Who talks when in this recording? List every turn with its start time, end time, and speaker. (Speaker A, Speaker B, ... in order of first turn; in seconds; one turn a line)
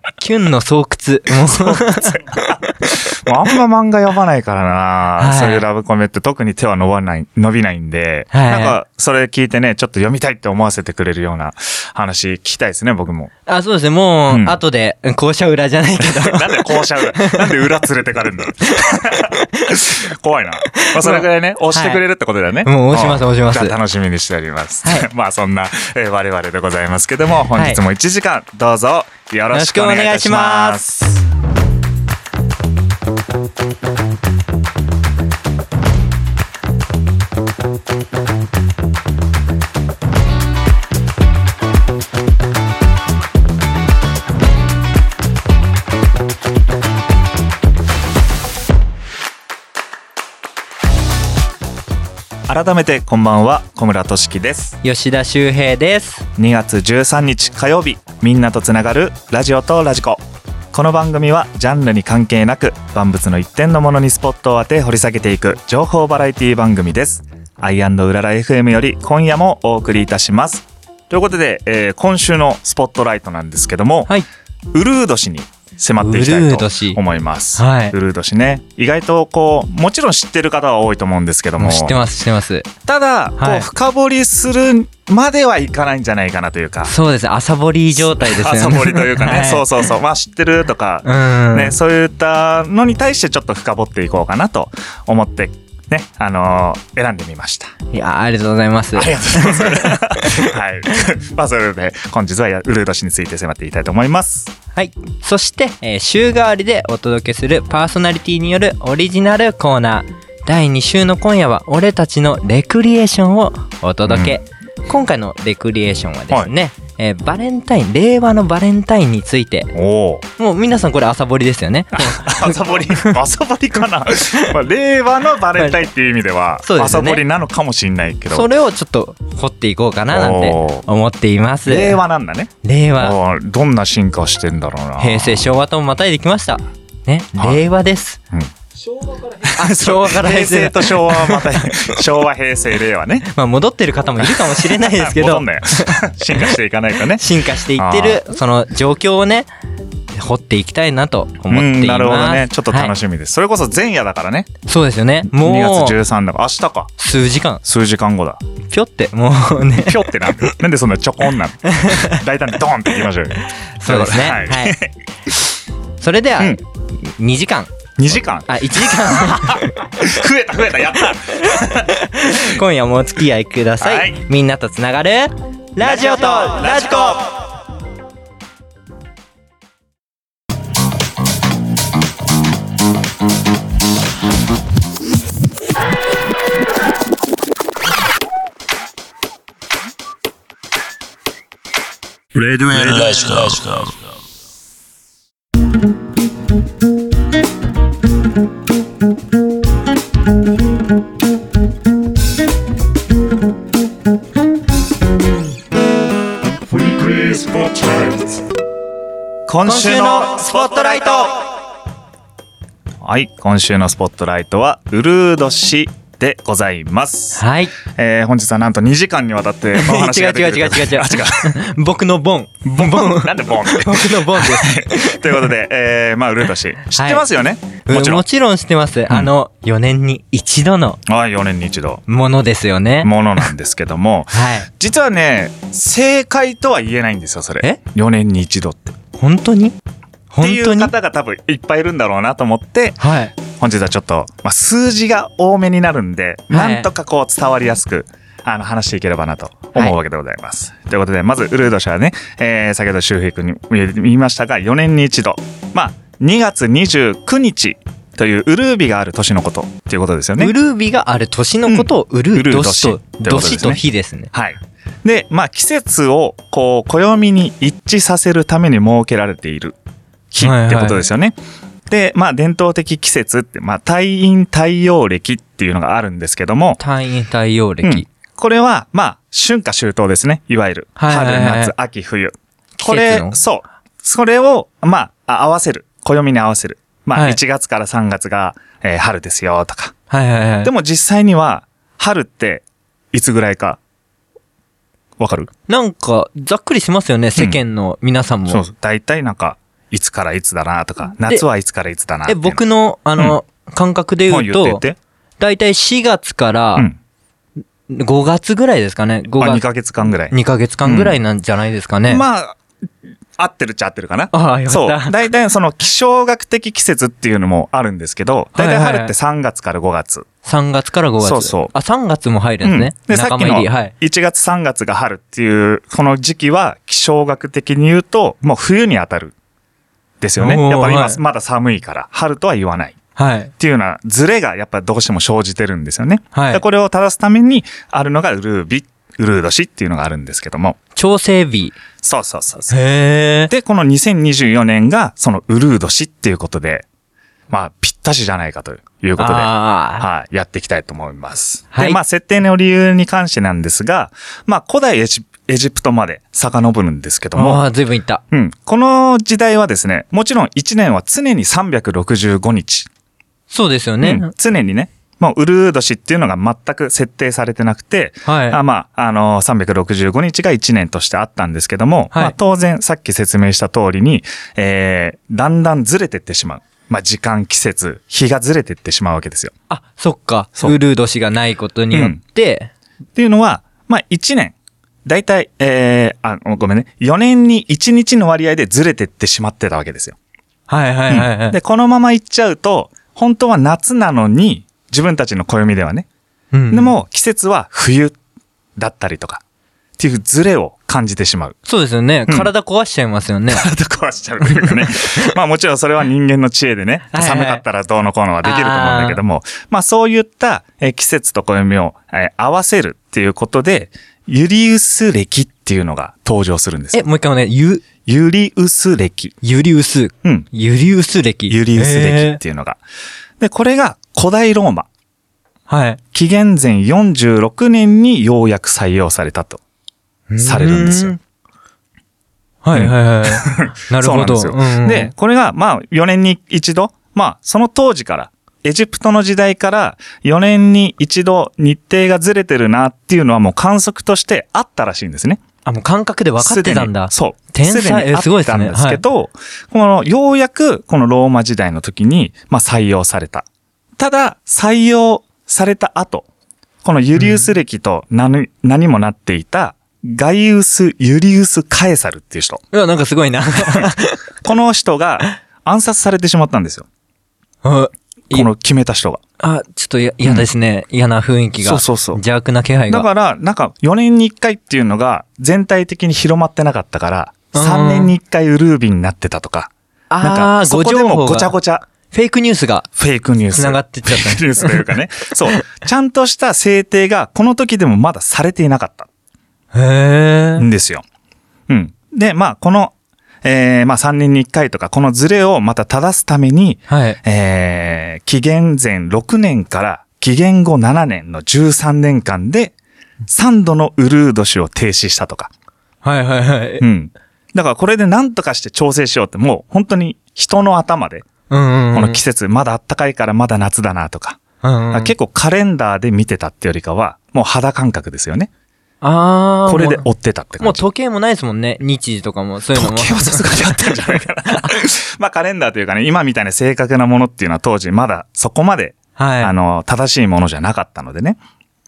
Speaker A: 0.2-2.3
Speaker B: 1.4-13.3
Speaker A: 5.2-5.7
Speaker A: 8.3-8.8
Speaker A: 13.5-17.6
Speaker B: 14.3-14.6
Speaker B: 16.0-31.2
Speaker A: 18.8-19.8
Speaker A: 20.7-22.0
Speaker A: 22.6-23.8
Speaker A: 27.5-27.8
Speaker A: 29.5-30.8
Speaker B: 52.5-54.8
Speaker A: 54.8-56.3
Speaker B: 56.4-60.2
Speaker B: 60.7-74.1
Speaker B: 74.7-82.0
Speaker A: 76.0-77.0
Speaker A: 77.6-78.0
Speaker A: 81.6-82.7
Speaker B: 82.9-86.9
Speaker A: 83.4-83.7
Speaker A: 86.9-89.7
Speaker B: 88.0-97.7
Speaker A: 91.0-91.8
Speaker A: 97.9-100.5
Speaker B: 99.0-104.5
Speaker A: 104.7-119.7
Speaker B: 114.1-114.4
Speaker B: 119.7-120.2
Speaker A: 120.4-123.1
Speaker B: 121.9-128.5
Speaker A: 125.6-125.9
Speaker A: 126.6-127.2
Speaker A: 128.3-132.0
Speaker B: 130.1-130.9
Speaker B: 131.7-135.5
Speaker A: 132.6-133.2
Speaker A: 135.0-138.2
Speaker B: 137.4-137.6
Speaker B: 139.4-143.3
Speaker A: 139.5-142.0
Speaker A: 143.2-146.5
Speaker B: 144.2-148.2
Speaker A: 147.1-149.5
Speaker A: 150.1-152.9
Speaker B: 151.5-154.5
Speaker A: 154.7-156.0
Speaker B: 155.3-156.9
Speaker A: 157.0-157.6
Speaker B: 157.6-158.4
Speaker A: 158.7-160.0
Speaker B: 159.7-165.4
Speaker A: 161.7-162.2
Speaker A: 163.8-164.8
Speaker A: 166.0-167.7
Speaker B: 168.0-171.9
Speaker A: 168.5-169.8
Speaker A: 171.3-177.2
Speaker B: 173.8-174.2
Speaker B: 175.8-177.3
Speaker C: 192.3-194.1
Speaker B: 207.0-208.2
Speaker C: 207.2-207.7
Speaker B: 209.5-211.3
Speaker A: 209.6-211.3
Speaker B: 213.0-221.6
Speaker A: 217.3-217.7
Speaker A: 219.8-225.4
Speaker B: 222.7-228.2
Speaker A: 226.9-227.2
Speaker A: 227.9-231.0
Speaker B: 231.1-232.0
Speaker A: 232.1-233.1
Speaker B: 233.0-239.0
Speaker A: 234.3-234.7
Speaker A: 239.2-239.8
Speaker A: 240.3-240.9
Speaker B: 240.4-260.5
Speaker A: 243.0-243.3
Speaker A: 246.5-246.9
Speaker A: 260.4-264.3
Speaker B: 261.7-269.8
Speaker B: 270.3-271.4
Speaker A: 270.4-271.1
Speaker B: 271.9-276.8
Speaker A: 276.8-278.1
Speaker B: 277.8-289.9
Speaker A: 281.0-281.7
Speaker A: 282.8-283.4
Speaker A: 287.1-287.4
Speaker A: 290.1-290.7
Speaker B: 290.6-293.8
Speaker B: 295.2-295.5
Speaker A: 295.7-298.6
Speaker B: 298.5-302.6
Speaker A: 302.3-304.8
Speaker B: 304.3-305.0
Speaker A: 305.4-306.9
Speaker A: 307.9-309.6
Speaker B: 309.4-311.2
Speaker A: 310.3-312.2
Speaker B: 312.1-312.6
Speaker B: 313.4-320.3
Speaker A: 314.3-315.2
Speaker A: 318.6-319.1
Speaker A: 320.4-323.9
Speaker B: 321.2-321.7
Speaker B: 322.6-329.3
Speaker B: 330.2-333.0
Speaker A: 330.4-331.2
Speaker A: 333.2-333.5
Speaker B: 333.6-340.8
Speaker A: 336.4-336.6
Speaker A: 341.0-341.8
Speaker B: 342.0-342.8
Speaker A: 342.7-343.5
Speaker B: 343.5-346.9
Speaker B: 347.5-357.6
Speaker A: 349.2-350.1
Speaker A: 351.7-352.0
Speaker A: 357.4-358.2
Speaker B: 358.3-362.9
Speaker A: 363.5-364.3
Speaker B: 364.0-379.5
Speaker A: 368.2-368.6
Speaker A: 379.7-382.7
Speaker B: 381.9-382.2
Speaker B: 383.1-390.2
Speaker A: 390.7-391.6
Speaker B: 391.1-396.1
Speaker A: 396.5-397.0
Speaker B: 396.7-398.2
Speaker B: 398.8-399.4
Speaker B: 400.0-401.6
Speaker A: 401.7-403.7
Speaker B: 403.5-417.0
Speaker A: 404.4-405.3
Speaker A: 407.1-407.6
Speaker A: 408.4-409.2
Speaker A: 416.9-417.8
Speaker B: 418.1-419.4
Speaker A: 419.4-422.4
Speaker B: 421.5-422.8
Speaker B: 423.4-424.9
Speaker A: 425.7-426.0
Speaker B: 426.1-429.6
Speaker A: 430.3-431.2
Speaker B: 430.4-431.2
Speaker A: 432.6-435.1
Speaker B: 432.7-445.4
Speaker A: 445.6-449.0
Speaker B: 446.4-453.5
Speaker B: 454.0-456.3
Speaker B: 456.8-462.6
Speaker A: 457.2-457.5
Speaker A: 462.7-464.3
Speaker B: 464.4-466.9
Speaker A: 467.6-468.5
Speaker B: 468.3-469.2
Speaker A: 469.4-473.1
Speaker B: 471.6-472.2
Speaker B: 472.9-481.9
Speaker A: 477.5-478.1
Speaker A: 480.1-482.9
Speaker B: 483.0-489.1
Speaker A: 483.5-484.9
Speaker A: 489.7-490.7
Speaker B: 490.6-491.0
Speaker B: 491.7-502.7
Speaker A: 496.9-497.2
Speaker B: 503.3-505.5
Speaker A: 506.0-506.9
Speaker B: 506.8-511.3
Speaker A: 511.5-512.2
Speaker B: 511.9-514.4
Speaker A: 514.6-515.1
Speaker B: 514.9-518.5
Speaker A: 519.0-520.1
Speaker B: 519.7-520.8
Speaker A: 520.6-524.7
Speaker B: 522.7-531.4
Speaker A: 529.2-529.5